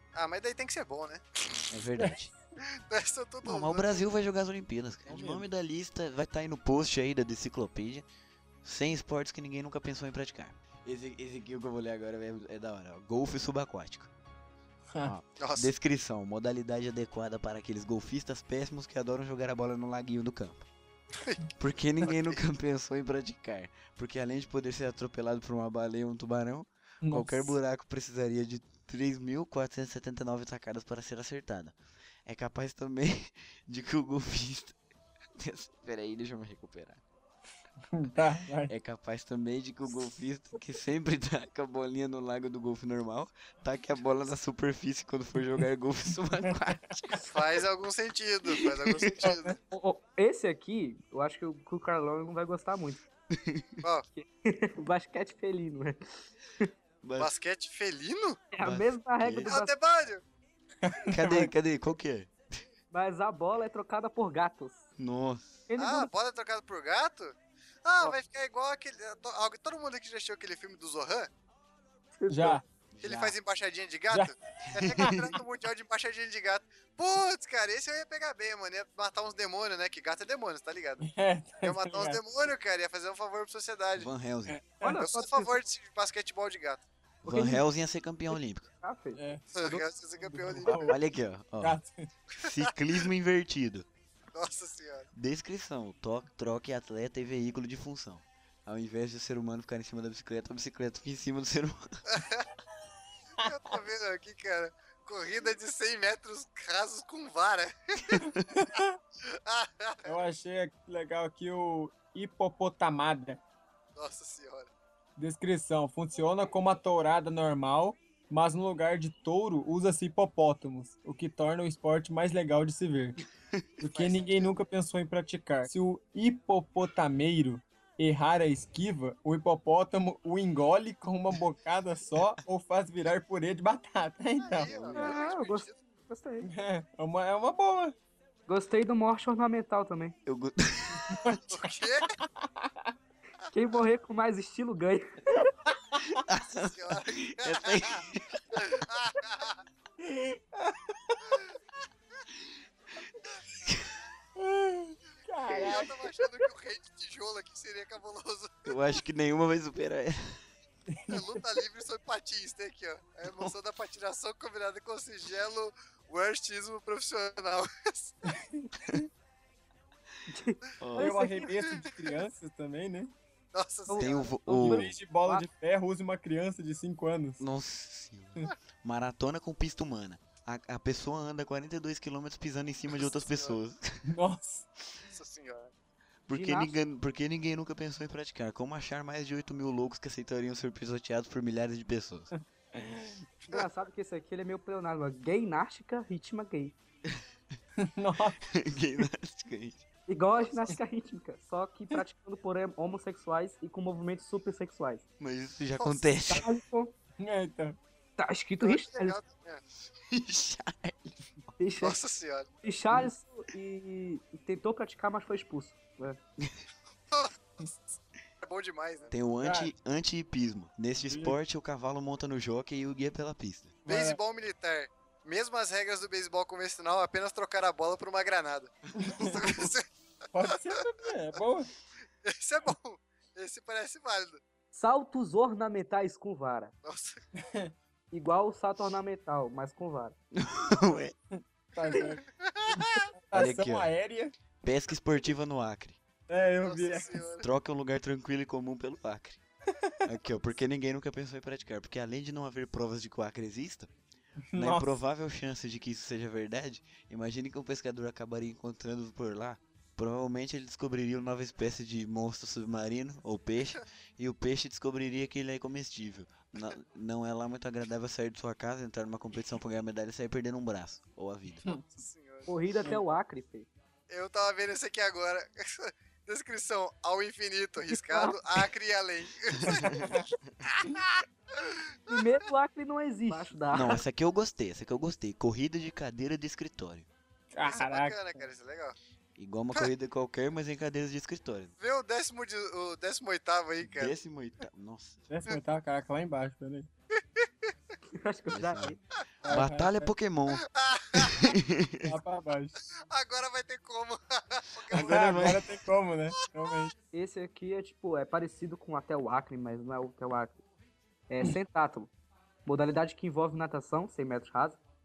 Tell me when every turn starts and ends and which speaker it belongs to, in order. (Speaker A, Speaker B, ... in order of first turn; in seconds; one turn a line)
Speaker A: 0.1-1.7
Speaker B: 1.7-2.3
Speaker C: 2.0-2.2
Speaker A: 2.6-4.1
Speaker B: 3.4-8.1
Speaker C: 5.1-5.4
Speaker B: 8.6-14.1
Speaker B: 15.0-20.7
Speaker A: 15.4-15.7
Speaker B: 21.6-34.8
Speaker A: 22.0-22.4
Speaker C: 27.0-27.6
Speaker B: 35.3-37.0
Speaker C: 37.9-38.7
Speaker B: 38.7-47.3
Speaker A: 47.3-49.6
Speaker B: 48.8-49.2
Speaker C: 49.2-49.5
Speaker D: 49.7-53.0
Speaker B: 53.3-53.7
Speaker D: 54.1-56.0
Speaker B: 57.0-57.3
Speaker A: 57.2-58.4
Speaker D: 58.5-59.7
Speaker B: 58.6-59.5
Speaker A: 59.5-60.2
Speaker C: 60.8-61.5
Speaker B: 61.1-62.3
Speaker D: 62.9-64.9
Speaker B: 65.0-65.5
Speaker D: 65.7-66.1
Speaker A: 65.8-67.3
Speaker A: 67.8-71.3
Speaker D: 72.2-72.6
Speaker C: 72.3-72.6
Speaker B: 72.9-73.3
Speaker A: 73.0-81.1
Speaker B: 74.7-75.3
Speaker C: 75.0-75.2
Speaker C: 81.0-82.2
Speaker A: 81.6-84.1
Speaker B: 84.0-84.6
Speaker C: 84.5-85.0
Speaker D: 84.8-85.6
Speaker A: 85.0-86.8
Speaker D: 87.2-87.6
Speaker B: 87.2-88.7
Speaker D: 88.8-89.8
Speaker C: 89.2-91.0
Speaker A: 89.5-91.0
Speaker B: 90.8-91.8
Speaker C: 91.6-92.1
Speaker B: 92.3-93.8
Speaker A: 92.4-92.7
Speaker A: 94.3-95.1
Speaker B: 95.1-102.0
Speaker A: 102.1-102.5
Speaker C: 103.4-103.8
Speaker A: 103.4-108.2
Speaker B: 108.1-108.4
Speaker C: 108.5-109.0
Speaker A: 109.2-110.2
Speaker C: 110.0-113.4
Speaker A: 114.0-114.7
Speaker C: 115.2-123.2
Speaker C: 123.8-134.7
Speaker A: 123.8-124.5
Speaker A: 134.4-135.8
Speaker B: 134.7-135.2
Speaker D: 134.9-136.5
Speaker C: 136.4-137.9
Speaker D: 138.5-140.2
Speaker B: 140.2-141.4
Speaker C: 141.1-141.6
Speaker A: 141.5-142.2
Speaker C: 142.4-142.9
Speaker D: 143.5-145.3
Speaker B: 146.0-148.6
Speaker A: 146.6-148.0
Speaker A: 148.5-149.6
Speaker C: 150.0-151.4
Speaker B: 153.7-153.9
Speaker C: 154.4-155.9
Speaker A: 155.5-158.8
Speaker B: 158.7-160.5
Speaker C: 160.9-161.4
Speaker A: 161.1-168.3
Speaker B: 163.2-163.5
Speaker C: 168.3-169.0
Speaker D: 170.3-171.5
Speaker B: 170.8-171.2
Speaker C: 170.9-173.1
Speaker A: 171.6-172.1
Speaker A: 173.5-174.3
Speaker D: 173.9-175.5
Speaker B: 174.0-174.9
Speaker C: 174.6-177.4
Speaker B: 177.4-184.1
Speaker A: 182.9-183.6
Speaker C: 184.1-184.7
Speaker A: 185.1-185.7
Speaker B: 186.3-192.3
Speaker D: 186.3-186.7
Speaker C: 192.4-193.2
Speaker D: 193.5-196.8
Speaker C: 197.8-198.4
Speaker B: 198.4-199.8
Speaker D: 200.1-205.0
Speaker A: 200.4-200.7
Speaker B: 205.2-206.5
Speaker D: 206.3-206.9
Speaker C: 207.2-207.8
Speaker D: 208.2-209.2
Speaker A: 208.6-209.6
Speaker B: 210.1-211.3
Speaker D: 211.6-212.0
Speaker A: 211.8-212.5
Speaker D: 212.6-216.2
Speaker A: 217.1-219.1
Speaker B: 219.1-223.8
Speaker C: 219.4-219.7
Speaker C: 221.0-221.3
Speaker C: 223.8-224.2
Speaker A: 223.8-229.8
Speaker C: 229.0-229.4
Speaker B: 229.2-229.7
Speaker C: 230.3-231.7
Speaker A: 232.2-234.4
Speaker D: 234.7-236.7
Speaker A: 236.8-237.2
Speaker C: 237.4-237.7
Speaker D: 238.1-240.1
Speaker B: 240.3-241.1
Speaker C: 241.3-244.3
Speaker A: 242.0-243.1
Speaker B: 243.3-243.9
Speaker B: 244.6-246.0
Speaker C: 246.3-247.2
Speaker A: 246.6-247.5
Speaker B: 247.4-249.4
Speaker B: 250.0-253.9
Speaker C: 254.5-254.9
Speaker B: 254.5-271.8
Speaker A: 271.9-272.5
Speaker D: 272.5-273.7
Speaker A: 274.1-280.1
Speaker D: 277.9-278.4
Speaker B: 279.6-280.1
Speaker A: 280.7-282.2
Speaker D: 282.1-284.0
Speaker B: 283.7-287.1
Speaker C: 287.5-288.4
Speaker A: 287.6-288.9
Speaker B: 289.4-291.7
Speaker A: 291.8-294.1
Speaker B: 293.8-295.3
Speaker C: 295.3-296.9
Speaker A: 297.2-297.7
Speaker D: 298.1-299.0
Speaker B: 298.5-302.2
Speaker C: 299.4-300.1
Speaker A: 300.5-301.5
Speaker C: 302.1-302.8
Speaker A: 302.9-305.5
Speaker B: 304.9-305.6
Speaker C: 304.9-306.9
Speaker D: 307.1-310.6
Speaker D: 311.3-312.1
Speaker D: 312.6-314.8